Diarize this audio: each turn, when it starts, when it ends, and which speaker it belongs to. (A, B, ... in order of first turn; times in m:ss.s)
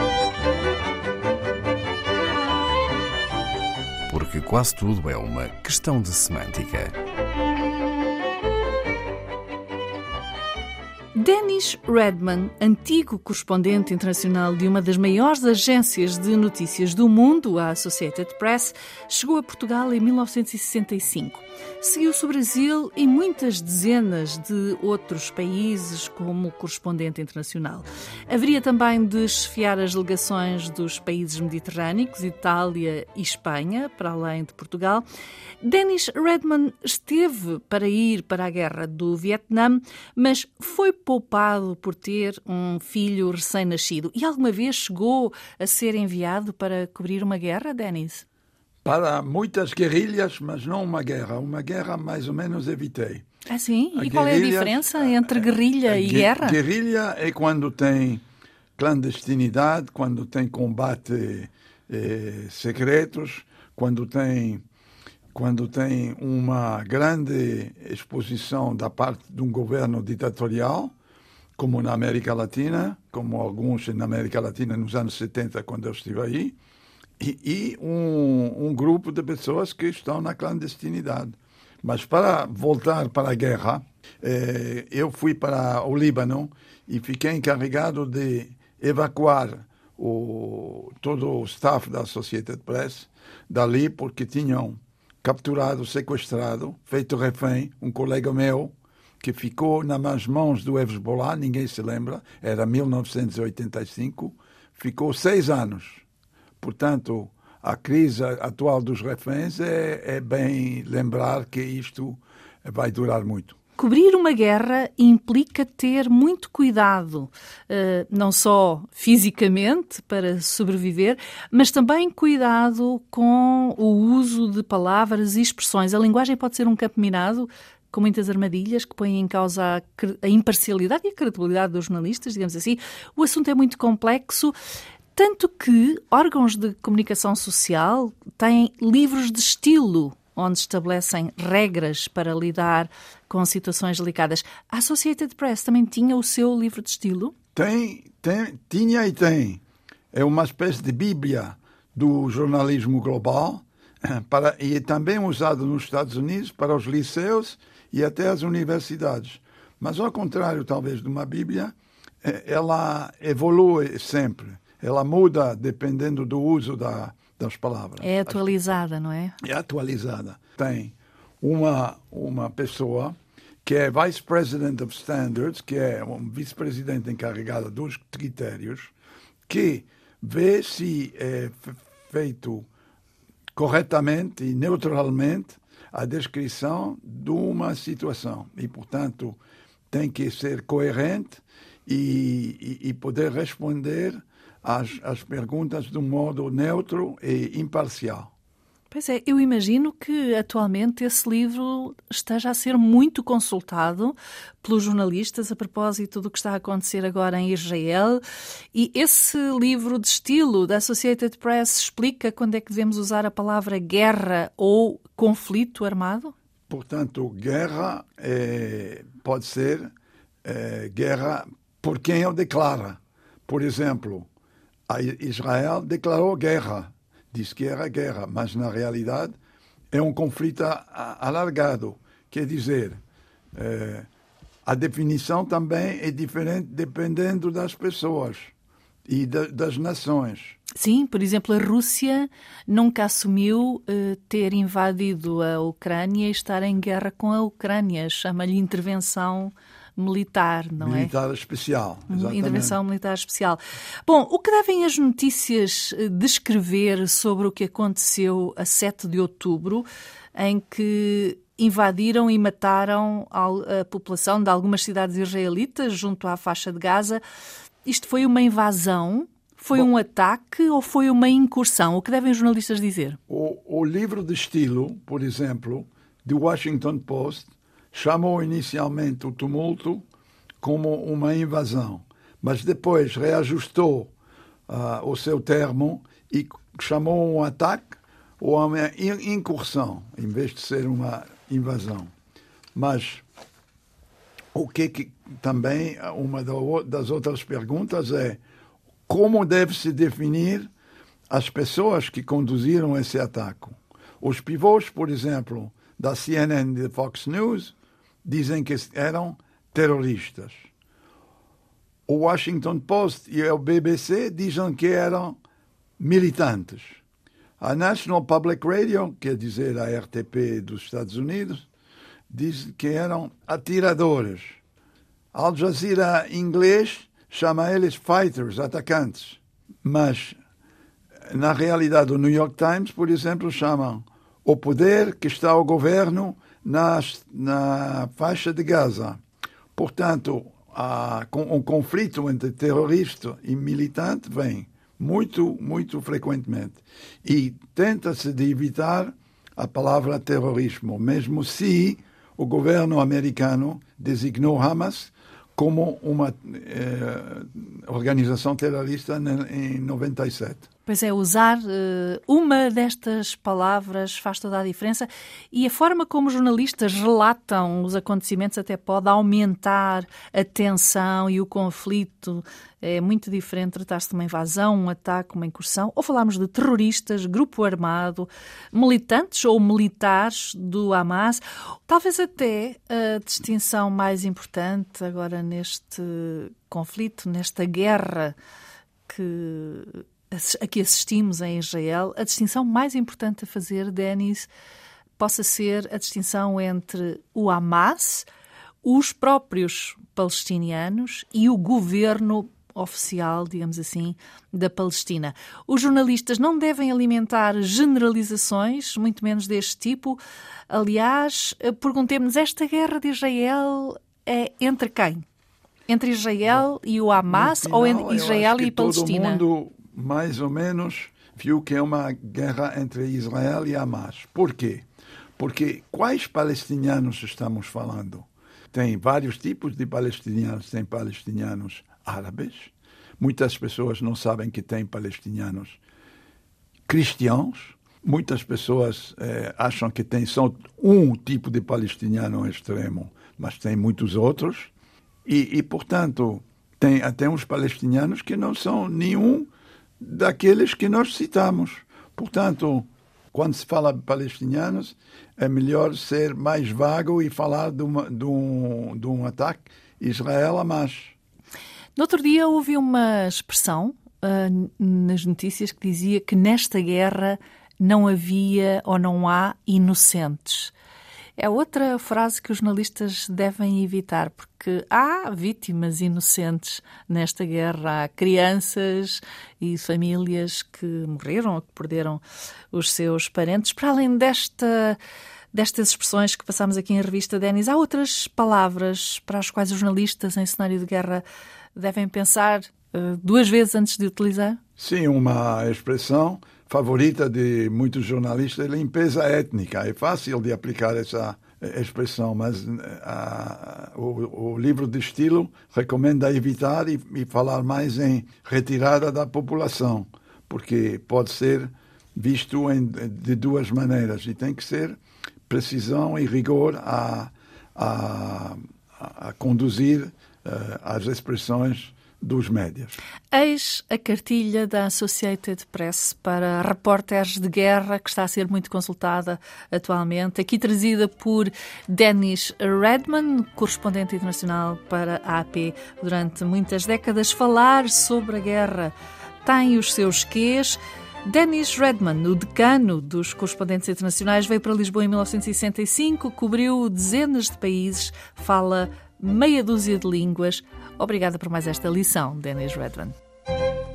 0:04.1-0:07.0 A
0:11.1-0:35.0 B
0:35.6-0:48.2 B
0:48.8-0:53.2 C
0:53.5-0:56.6 B
0:53.9-0:58.2 C
0:58.8-1:04.6 C
1:05.3-1:10.9 C
1:11.6-1:16.6 C
1:17.2-1:46.0 C
1:46.6-1:53.6 C
1:53.8-2:14.6 B
2:15.2-2:27.3 B
2:27.6-2:29.6 C
2:30.1-2:48.4 C
2:48.0-2:49.4 B
2:49.4-2:58.9 C
2:59.5-3:02.7 C
3:03.6-3:09.4 C
3:09.9-3:18.3 C
3:18.9-3:28.2 B
3:28.7-3:36.3 B
3:36.7-3:39.9 C
3:40.4-3:44.3 C
3:44.9-3:49.4 C
3:49.9-3:53.0 C
3:53.6-3:54.1 C
3:54.6-3:58.5 C
3:59.1-4:00.6 C
4:00.8-4:11.1 B
4:10.8-4:12.8 C
4:12.1-4:27.2 B
4:27.8-4:33.2 B
4:33.3-4:40.0 C
4:40.6-4:44.1 C
4:44.7-4:52.1 C
4:52.8-4:53.2 C
4:54.5-4:58.4 C
4:59.1-5:00.7 C
5:01.3-5:10.7 C
5:12.1-5:15.4 C
5:16.0-5:17.0 C
5:17.6-5:21.7 C
5:22.3-5:24.6 C
5:25.3-5:30.4 C
5:31.3-5:39.2 C
5:39.8-6:00.7 C
6:00.8-6:28.4 B
6:29.1-6:34.5 B
6:35.2-6:38.3 B
6:38.8-6:55.2 B
6:55.9-6:59.4 B
6:57.3-7:04.8 C
7:05.4-7:15.8 C
7:16.9-7:24.7 C
7:25.3-7:41.1 C
7:42.0-7:50.7 B
7:51.4-8:05.0 B
8:05.5-8:11.2 B
8:11.8-8:14.6 B
8:14.8-8:35.0 C
8:35.5-8:43.0 C
8:43.3-9:13.2 B